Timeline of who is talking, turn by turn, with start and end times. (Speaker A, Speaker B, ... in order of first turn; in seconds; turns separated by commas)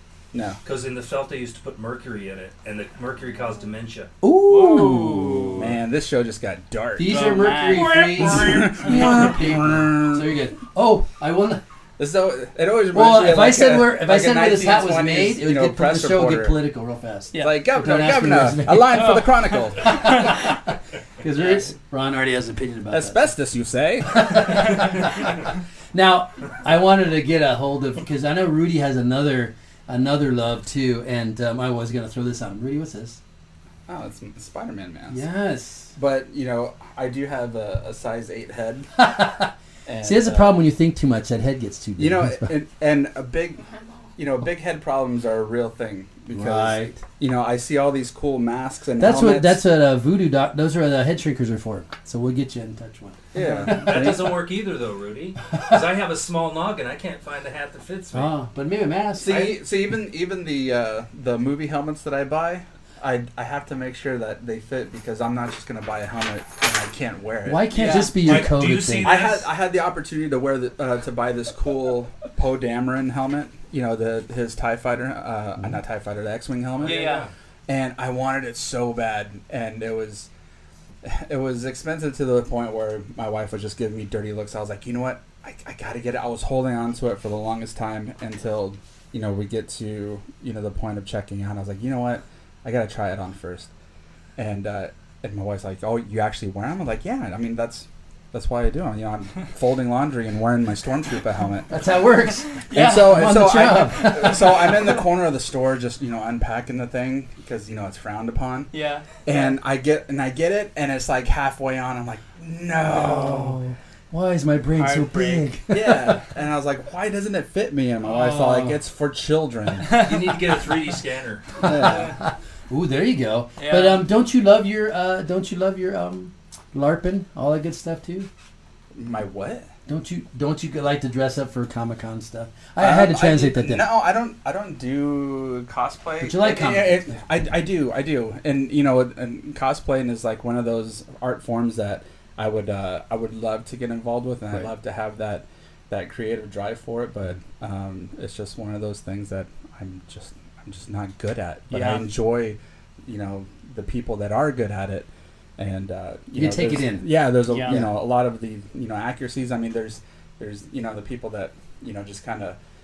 Speaker A: 0.3-0.6, Speaker B: 0.6-4.1, Speaker C: 4.2-5.7, Speaker B: 4.8-5.5, Speaker A: 5.5-10.3, Speaker C: 7.0-11.6, Speaker D: 7.0-9.6, Speaker B: 8.4-8.7, Speaker A: 12.0-16.6, Speaker C: 12.9-20.6, Speaker D: 17.3-17.6, Speaker A: 17.4-20.2, Speaker D: 18.9-20.5, Speaker C: 21.2-23.3, Speaker A: 22.9-25.1, Speaker C: 24.1-33.2, Speaker A: 33.9-35.2, Speaker C: 35.1-36.0, Speaker A: 36.0-39.1, Speaker C: 39.0-39.5, Speaker A: 39.9-40.7, Speaker C: 40.0-42.5, Speaker A: 42.0-49.6, Speaker C: 46.3-47.0, Speaker C: 49.0-54.0, Speaker A: 53.3-54.4, Speaker D: 53.4-53.8, Speaker B: 53.7-58.3, Speaker C: 58.1-59.5, Speaker A: 59.2-67.8, Speaker C: 67.5-69.1, Speaker D: 67.7-68.2, Speaker B: 67.8-69.5, Speaker A: 69.0-80.3, Speaker B: 76.8-77.3, Speaker D: 76.8-77.3, Speaker A: 81.0-93.7, Speaker A: 94.4-101.8, Speaker C: 101.7-104.7, Speaker A: 102.6-108.7, Speaker D: 102.7-103.2, Speaker D: 108.7-109.5, Speaker A: 109.2-113.6, Speaker C: 112.8-116.2, Speaker D: 114.8-115.5, Speaker A: 115.7-120.0, Speaker C: 118.2-118.8, Speaker D: 119.9-120.1, Speaker B: 120.0-122.1, Speaker C: 121.6-128.3, Speaker A: 121.6-122.1, Speaker D: 123.6-124.0, Speaker A: 128.9-129.7, Speaker C: 129.9-133.9, Speaker A: 132.8-162.6, Speaker C: 136.2-137.2, Speaker D: 151.7-152.1, Speaker C: 156.3-157.1, Speaker D: 157.5-157.8, Speaker C: 157.7-158.0